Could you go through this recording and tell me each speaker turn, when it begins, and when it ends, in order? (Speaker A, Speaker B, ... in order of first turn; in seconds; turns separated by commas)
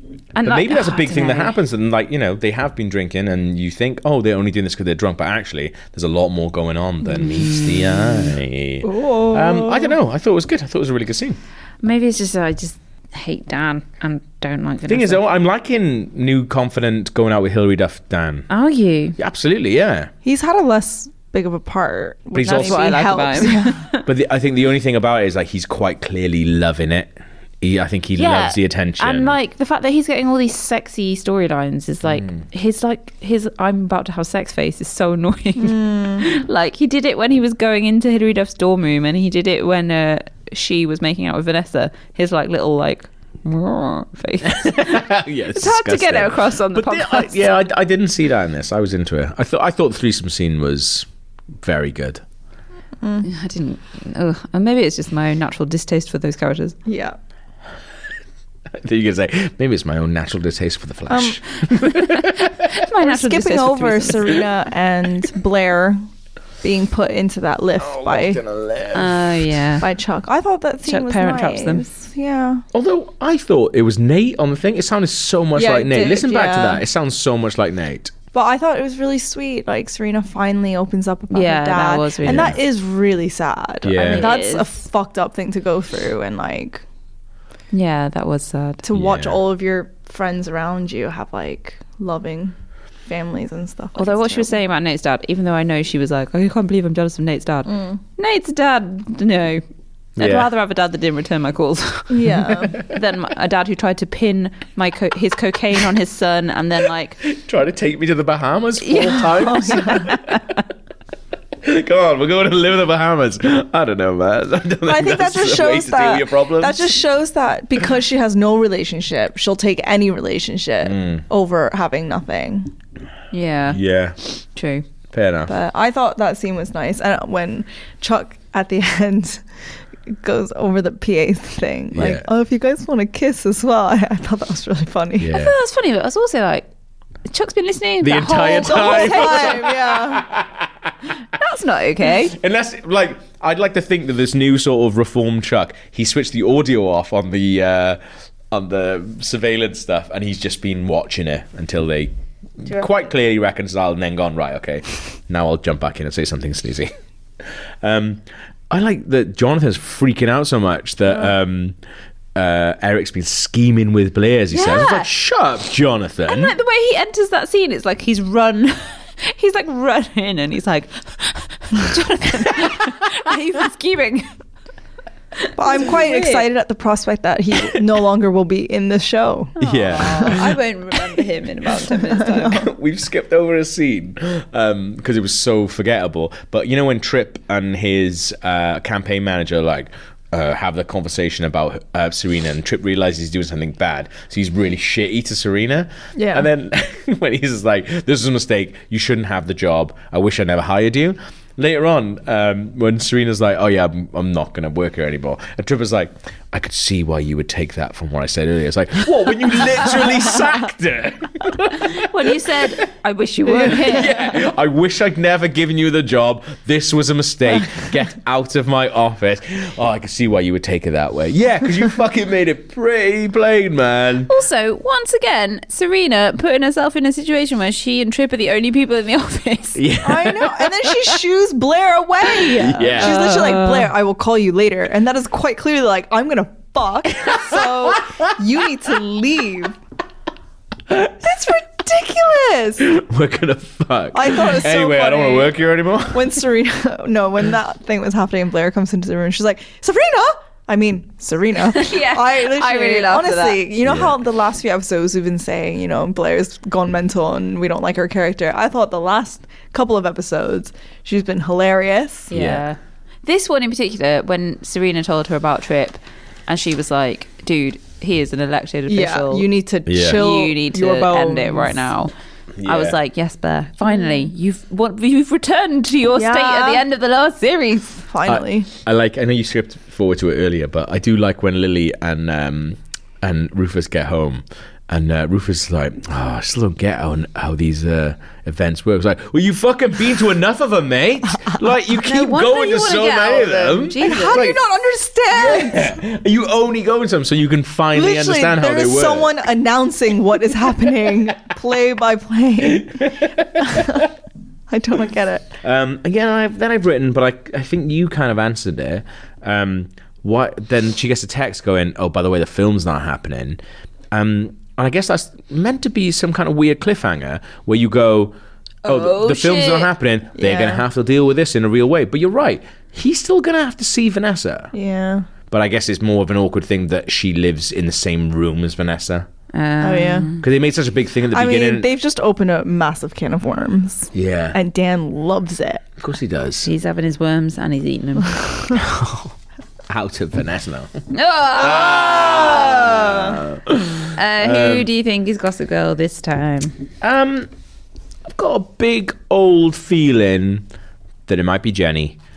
Speaker A: 0.3-1.6, Speaker B: 0.4-11.4, Speaker A: 7.3-7.6, Speaker C: 8.8-10.0, Speaker A: 11.8-15.2, Speaker B: 14.9-18.5, Speaker A: 18.5-19.2, Speaker B: 19.2-20.1, Speaker C: 20.2-23.8, Speaker B: 22.3-23.1, Speaker A: 22.4-24.1, Speaker B: 24.1-29.4, Speaker A: 28.2-47.5, Speaker C: 35.6-36.2, Speaker B: 44.5-51.1, Speaker B: 51.6-52.2, Speaker C: 53.0-53.3, Speaker A: 53.2-56.8, Speaker C: 56.9-57.2, Speaker B: 58.7-62.7, Speaker C: 61.1-61.4, Speaker A: 61.8-64.4, Speaker C: 63.0-66.0, Speaker C: 66.6-68.4, Speaker B: 67.8-69.4, Speaker A: 68.9-69.9, Speaker C: 69.8-72.6, Speaker A: 70.8-71.9, Speaker B: 72.7-78.1, Speaker C: 75.5-76.8, Speaker C: 78.3-86.8, Speaker A: 81.3-82.5, Speaker B: 82.2-82.5, Speaker B: 83.8-84.3, Speaker A: 84.2-84.7, Speaker A: 87.7-88.8, Speaker C: 88.8-92.5, Speaker B: 88.9-89.4, Speaker C: 93.1-94.5, Speaker A: 94.0-99.6, Speaker C: 97.7-98.0, Speaker B: 100.2-100.5, Speaker A: 100.2-107.2, Speaker C: 102.1-102.8, Speaker B: 107.2-110.4, Speaker A: 108.8-110.4, Speaker C: 109.2-110.1, Speaker B: 111.6-116.9, Speaker C: 114.8-122.7, Speaker B: 120.8-121.2, Speaker A: 123.3-123.8, Speaker B: 123.7-124.2, Speaker A: 124.4-124.9, Speaker B: 125.1-125.5, Speaker C: 125.5-129.4, Speaker C: 130.1-135.3, Speaker B: 131.9-132.3, Speaker B: 135.2-135.6, Speaker A: 135.3-136.7, Speaker A: 137.3-139.6, Speaker B: 138.0-140.9, Speaker C: 138.5-140.3, Speaker A: 141.3-142.3, Speaker B: 142.2-148.0, Speaker B: 148.5-156.9, Speaker B: 157.8-161.8, Speaker B: 162.3-166.6, Speaker A: 164.5-165.1, Speaker A: 166.2-174.3, Speaker A: 175.4-176.5, Speaker C: 175.6-180.4, Speaker B: 179.6-180.6, Speaker A: 179.6-182.6, Speaker C: 182.1-182.6, Speaker B: 182.4-212.8, Speaker C: 196.2-196.5, Speaker A: 211.7-214.1, Speaker B: 213.5-224.3, Speaker A: 224.3-229.8, Speaker B: 229.8-231.2, Speaker C: 230.0-239.8, Speaker B: 232.5-233.4, Speaker A: 232.6-233.9, Speaker B: 237.2-238.3, Speaker C: 241.1-242.9, Speaker B: 242.8-246.4, Speaker C: 244.1-262.3, Speaker A: 251.7-253.6, Speaker B: 253.8-254.2, Speaker A: 262.3-269.5, Speaker B: 262.3-262.7, Speaker C: 268.9-271.8, Speaker B: 269.9-270.2, Speaker A: 270.0-272.1, Speaker B: 272.6-273.0, Speaker A: 272.6-278.0, Speaker C: 273.9-274.2, Speaker C: 276.2-276.9, Speaker C: 278.1-278.7, Speaker B: 278.3-294.6, Speaker A: 292.0-294.4, Speaker C: 294.0-296.0, Speaker B: 295.3-299.3, Speaker C: 297.9-304.1, Speaker B: 302.8-304.0, Speaker C: 304.7-305.5, Speaker B: 305.6-313.6, Speaker B: 314.1-324.7, Speaker A: 318.8-319.9, Speaker C: 320.4-320.8, Speaker C: 324.7-325.3, Speaker B: 325.5-329.3, Speaker A: 329.5-330.4, Speaker C: 329.8-330.3, Speaker B: 330.4-331.9, Speaker C: 331.3-335.9, Speaker B: 334.1-334.6, Speaker B: 336.0-336.7, Speaker A: 336.6-338.8, Speaker B: 338.9-339.3, Speaker B: 339.9-341.0, Speaker A: 341.1-343.3, Speaker B: 341.6-344.9, Speaker C: 342.3-343.2, Speaker A: 344.1-346.8, Speaker B: 347.0-347.5, Speaker B: 348.3-350.7, Speaker B: 351.3-352.2